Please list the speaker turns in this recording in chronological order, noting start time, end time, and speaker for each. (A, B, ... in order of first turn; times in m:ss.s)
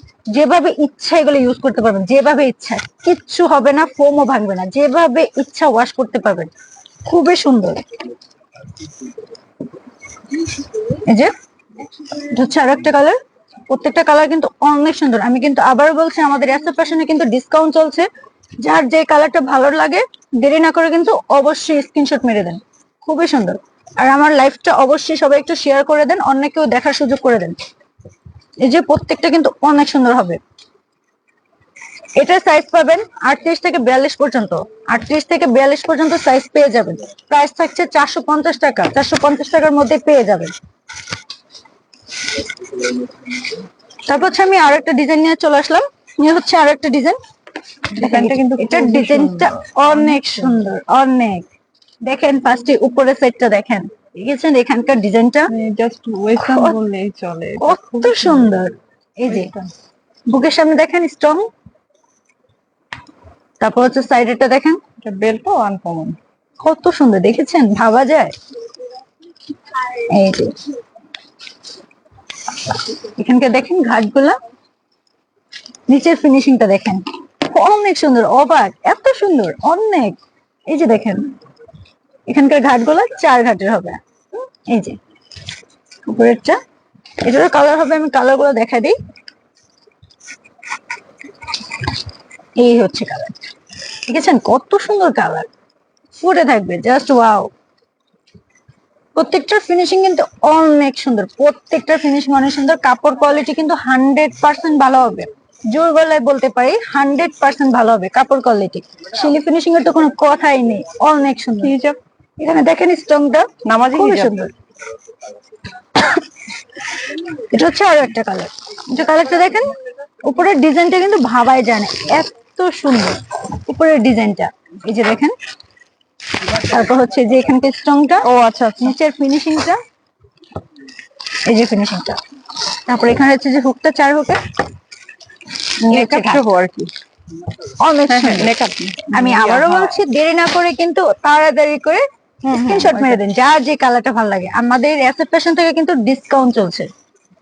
0:00.3-0:06.5 A
0:07.0-0:07.8 A
0:11.0-0:11.3 A
0:12.3-0:18.1 A
0:18.6-0:27.6 A
0:28.6-0:30.4 A
0:32.2-0:40.5 A
0:44.1-0:47.2 A
0:47.9-0:50.6 B
0:48.0-0:51.4 A
0:52.0-0:55.5 A
0:55.5-0:58.6 B
0:56.4-0:56.8 A
0:57.6-0:59.5 A
0:59.2-0:59.7 B
1:00.3-1:01.5 A
1:03.6-1:04.8 A
1:05.0-1:06.2 B
1:06.6-1:08.3 A
1:10.0-1:10.6 A
1:13.2-1:14.4 A
1:15.9-1:20.2 A
1:20.7-1:21.3 A
1:22.3-1:24.0 A
1:24.7-1:25.0 A
1:26.0-1:26.6 A
1:27.2-1:29.0 A
1:32.6-1:33.4 A
1:34.1-1:35.5 A
1:36.1-1:37.5 A
1:39.2-1:51.8 A
1:51.6-1:52.0 B
1:52.4-1:54.5 A
1:53.6-1:54.5 B
1:57.5-1:59.7 A
2:00.2-2:05.4 A
2:06.4-2:08.3 A
2:08.2-2:08.9 B
2:08.8-2:09.8 A
2:11.4-2:12.2 A
2:12.8-2:14.4 A
2:15.8-2:16.9 B
2:15.9-2:16.4 A
2:17.8-2:18.5 A
2:18.1-2:20.0 B
2:19.1-2:26.9 A
2:22.4-2:23.2 B